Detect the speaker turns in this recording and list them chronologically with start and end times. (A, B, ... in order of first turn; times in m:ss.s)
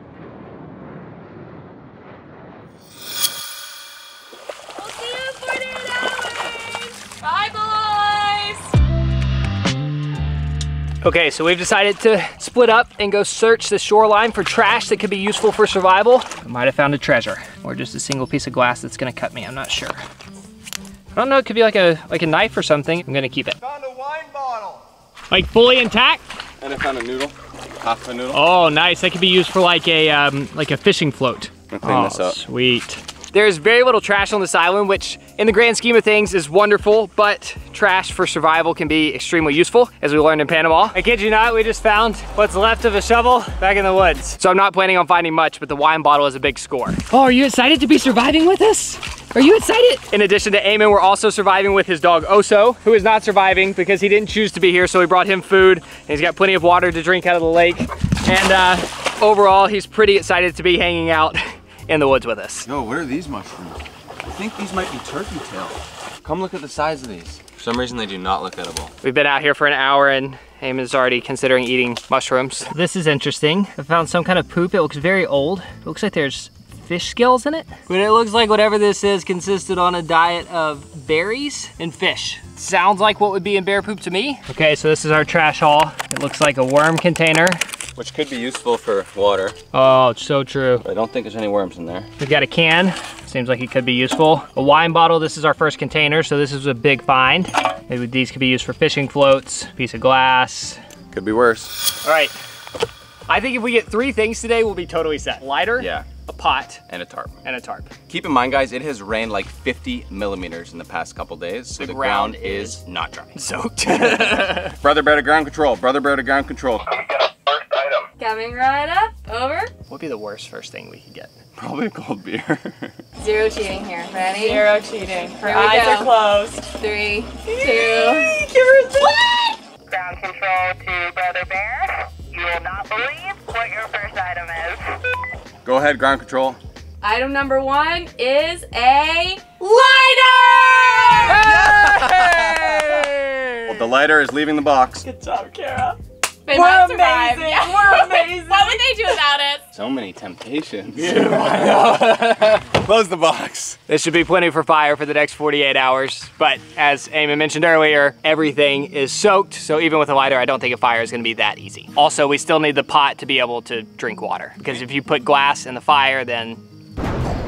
0:04.8-0:08.5 A
0:11.0-0:20.0 B
0:21.1-0:23.6 B
0:23.6-0:24.8 C
0:25.3-0:26.2 B
0:26.6-0:28.4 C
0:28.3-1:02.7 B
0:31.7-0:32.4 C
1:02.7-1:08.9 C
1:09.0-1:27.6 B
1:28.0-1:29.6 C
1:29.7-1:30.8 B
1:30.8-1:32.1 C
1:32.2-1:40.8 B
1:41.1-1:41.8 C
1:42.0-1:42.4 B
1:43.3-1:46.8 B
1:45.8-1:46.1 C
1:46.9-1:47.4 C
1:47.4-1:47.9 B
1:48.1-1:56.9 C
1:51.8-1:52.8 B
1:53.4-1:54.8 B
1:58.2-1:59.7 A
1:59.9-2:01.3 B
2:01.6-2:03.0 C
2:03.2-2:04.8 A
2:04.3-2:06.7 D
2:05.4-2:08.4 A
2:07.5-2:09.4 D
2:09.9-2:14.8 E
2:15.6-2:16.6 C
2:17.0-2:23.6 A
2:20.5-2:21.4 D
2:21.3-2:23.0 C
2:23.7-2:25.0 C
2:25.0-2:29.2 D
2:26.4-2:29.7 A
2:29.7-2:33.8 C
2:33.9-2:46.6 B